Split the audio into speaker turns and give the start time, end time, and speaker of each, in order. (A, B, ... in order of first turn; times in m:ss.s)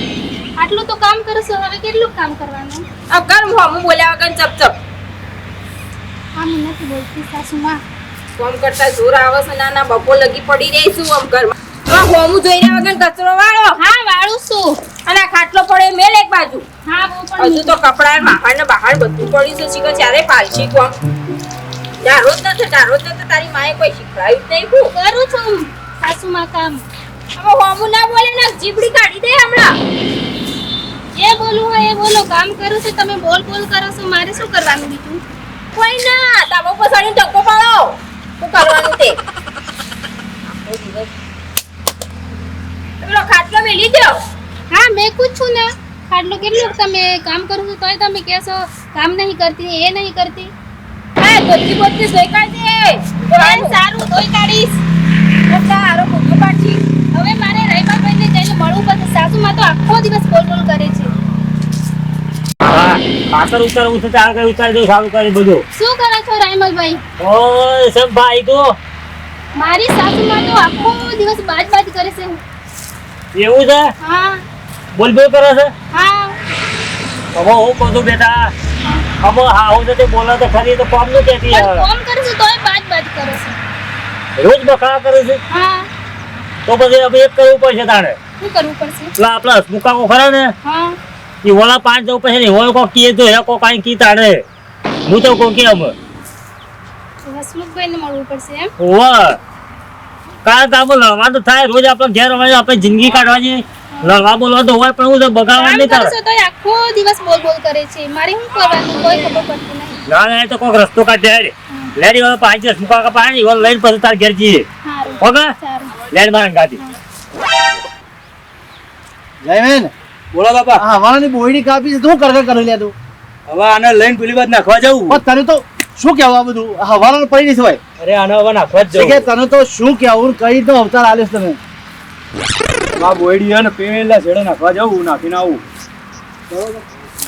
0:00.6-0:02.8 A
0:03.1-0:04.7 B
0:06.4-0:07.8 A
0:08.4-0:13.8 B
0:13.8-0:14.8 A
0:15.0-0:16.6 B
0:16.9-0:17.8 A
0:17.4-0:21.0 B
0:22.0-0:24.9 B
0:24.9-0:26.8 A
0:27.4-0:29.7 B
0:31.2-0:35.2 A
0:35.7-0:39.2 B
0:40.5-0:41.1 B
0:43.0-0:44.1 B
0:44.7-0:50.5 A
0:51.2-0:53.8 B
0:53.3-0:54.8 A
0:55.4-0:56.8 B
0:57.1-1:01.1 A
1:02.6-1:05.6 C
1:05.7-1:07.0 A
1:07.2-1:08.8 C
1:09.6-1:12.4 A
1:13.3-1:13.8 C
1:14.0-1:14.4 A
1:14.9-1:15.7 C
1:15.9-1:16.4 A
1:17.3-1:18.5 C
1:19.2-1:21.8 C
1:21.5-1:23.5 A
1:24.4-1:25.4 C
1:25.5-1:25.9 A
1:26.6-1:28.2 C
1:28.4-1:29.1 A
1:29.2-1:30.5 C
1:30.6-1:31.0 A
1:31.4-1:34.4 C
1:35.1-1:35.9 C
1:37.2-1:38.7 A
1:38.8-1:39.4 C
1:40.4-1:46.1 C
1:44.0-1:44.2 A
1:45.5-1:50.0 A
1:50.1-1:54.6 C
1:54.8-1:55.9 A
1:55.2-1:55.4 C
1:56.1-1:56.8 C
1:59.4-1:59.9 D
2:00.3-2:00.8 E
2:00.8-2:02.9 D
2:03.5-2:05.2 E
2:05.1-2:07.8 D
2:08.0-2:09.2 E
2:08.9-2:11.6 D
2:12.9-2:15.6 E
2:16.5-2:16.8 E